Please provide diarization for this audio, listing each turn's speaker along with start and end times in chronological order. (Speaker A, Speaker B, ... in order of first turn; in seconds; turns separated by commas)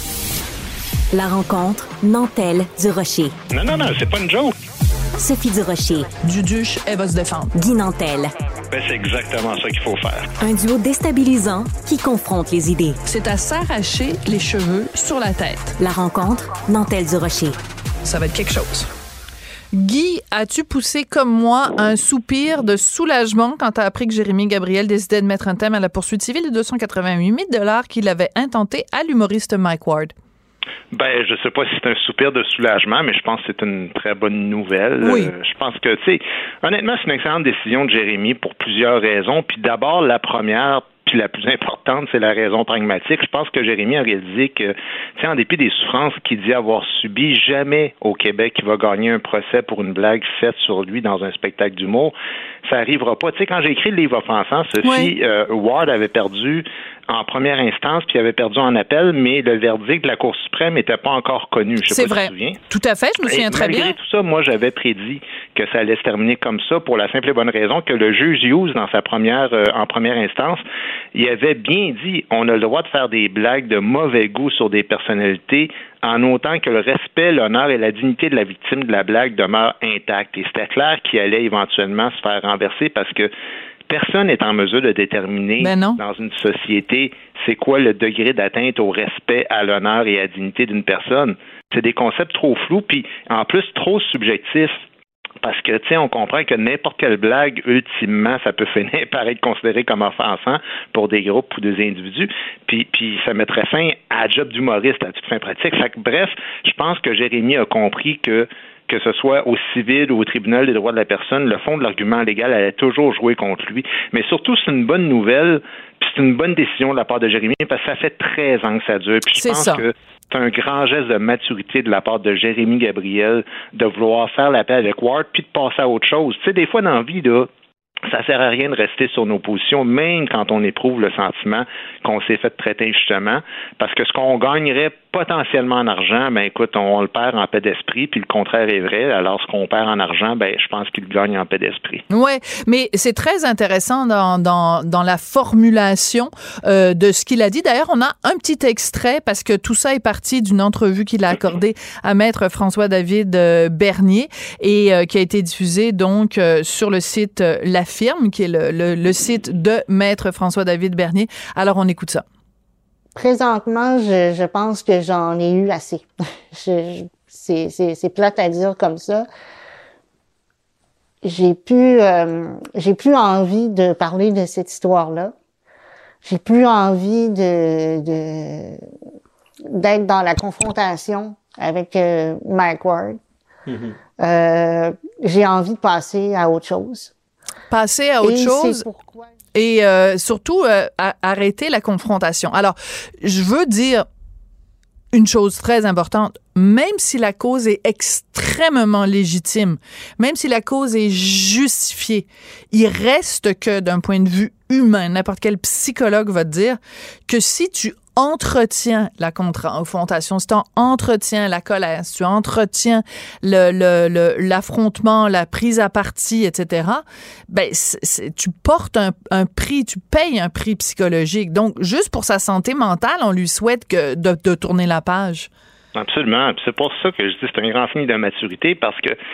Speaker A: 1.1-3.4, Speaker B: 3.5-4.5, Speaker A: 5.2-6.1, Speaker C: 6.2-7.5, Speaker A: 7.5-8.3, Speaker B: 8.7-10.3, Speaker A: 10.4-13.0, Speaker C: 13.0-15.8, Speaker A: 15.8-17.6, Speaker C: 18.0-18.9, Speaker C: 19.7-30.1, Speaker B: 30.9-52.1, Speaker C: 35.0-35.3, Speaker B: 52.6-62.6, Speaker C: 54.8-55.1, Speaker C: 61.9-64.0, Speaker B: 63.2-83.3, Speaker B: 83.9-94.8, Speaker C: 85.6-86.0, Speaker B: 95.4-127.5, Speaker C: 119.4-119.8, Speaker B: 128.1-142.0, Speaker C: 142.1-162.2, Speaker D: 163.2-169.3, Speaker D: 171.2-175.3, Speaker D: 176.2-178.8, Speaker D: 179.7-183.2, Speaker D: 184.2-187.1, Speaker C: 187.7-188.8, Speaker D: 188.2-189.3, Speaker C: 189.5-194.0, Speaker C: 195.1-225.5, Speaker B: 225.9-229.2